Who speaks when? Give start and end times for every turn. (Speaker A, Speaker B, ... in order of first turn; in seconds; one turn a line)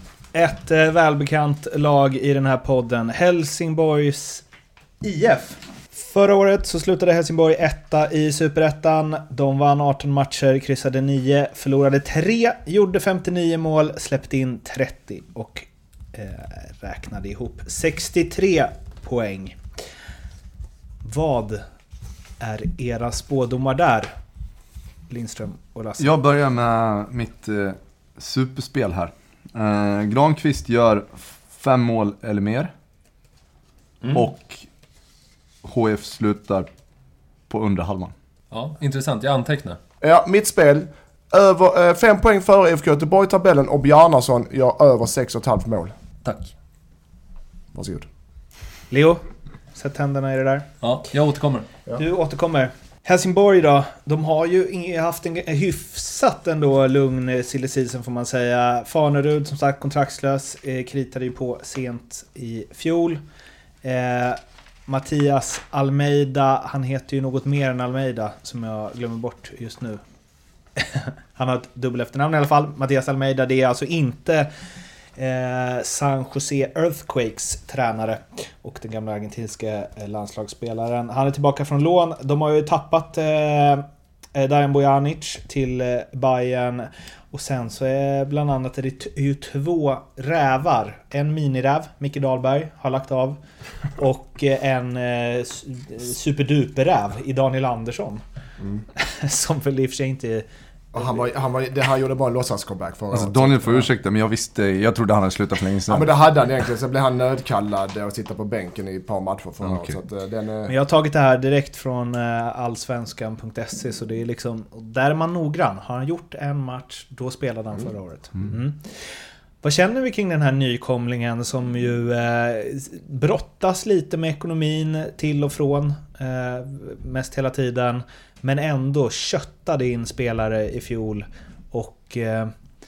Speaker A: 0.3-4.5
Speaker A: 5.0-19.6
Speaker A: 21.0-21.6
Speaker A: 22.4-24.1
Speaker A: 25.1-26.1
Speaker B: 26.0-32.7
Speaker B: 34.1-34.7
Speaker B: 35.6-36.7
Speaker B: 37.5-38.1
Speaker C: 38.5-39.8
Speaker D: 40.0-45.9
Speaker C: 46.2-46.5
Speaker D: 47.7-48.1
Speaker A: 48.9-49.2
Speaker A: 49.7-50.7
Speaker C: 50.8-51.7
Speaker A: 51.9-63.2
Speaker A: 63.8-70.0
Speaker A: 70.8-74.5
Speaker A: 75.2-83.8
Speaker A: 84.3-93.4
Speaker A: 94.0-98.2
Speaker D: 98.6-98.8
Speaker A: 99.0-100.5
Speaker D: 100.9-103.9
Speaker B: 103.1-106.2
Speaker D: 105.9-110.7
Speaker B: 109.6-110.0
Speaker A: 110.7-119.1
Speaker A: 119.6-132.5